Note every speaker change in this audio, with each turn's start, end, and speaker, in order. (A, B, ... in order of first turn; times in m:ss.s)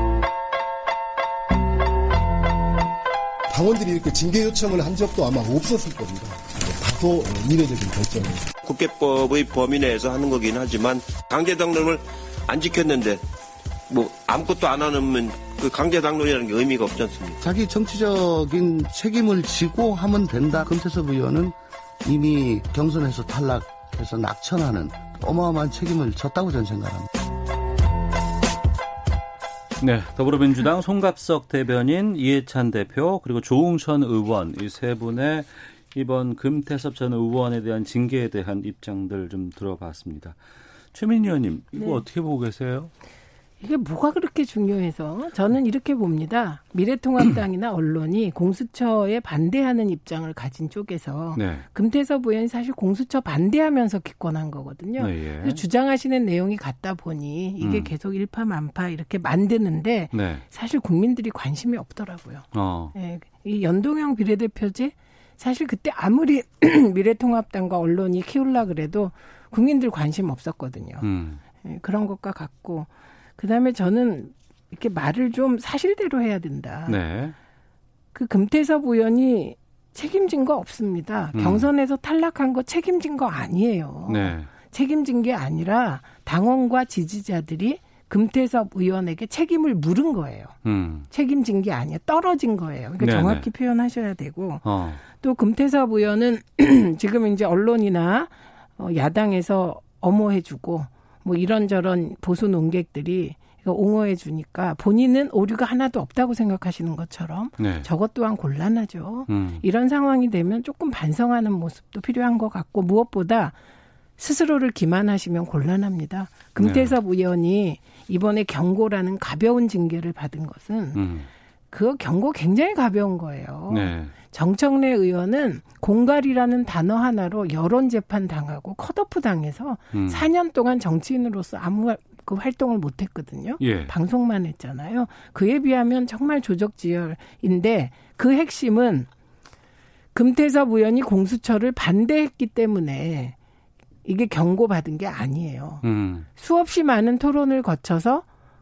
0:03.5-0:08.5 A
0:08.6-0:13.2 B
0:13.9-0:17.4 B
0:17.4-0:27.1 C
0:29.8-0:40.4 D
0:40.9-0:42.9 D
0:41.8-0:42.0 E
0:43.6-1:11.1 E
0:51.4-0:51.6 D
0:55.0-0:55.6 D
0:57.6-0:57.9 D
1:00.1-1:00.4 D
1:02.5-1:02.9 D
1:11.0-1:11.4 D
1:11.6-1:17.0 E
1:16.9-1:17.4 D
1:18.1-1:30.6 E
1:21.4-1:21.7 D
1:24.1-1:24.5 D
1:30.6-1:31.1 D
1:31.1-1:53.6 E
1:33.0-1:33.5 D
1:34.6-1:35.0 D
1:47.6-1:47.9 D
1:49.3-1:49.6 D
1:54.2-2:01.0 E
1:56.6-1:57.0 D
2:01.0-2:01.3 D
2:01.7-2:19.1 E
2:03.7-2:04.1 D
2:09.9-2:10.3 D
2:13.6-2:13.9 D
2:20.2-2:23.4 E
2:24.0-2:25.8 E
2:25.8-2:26.3 D
2:26.4-2:28.3 E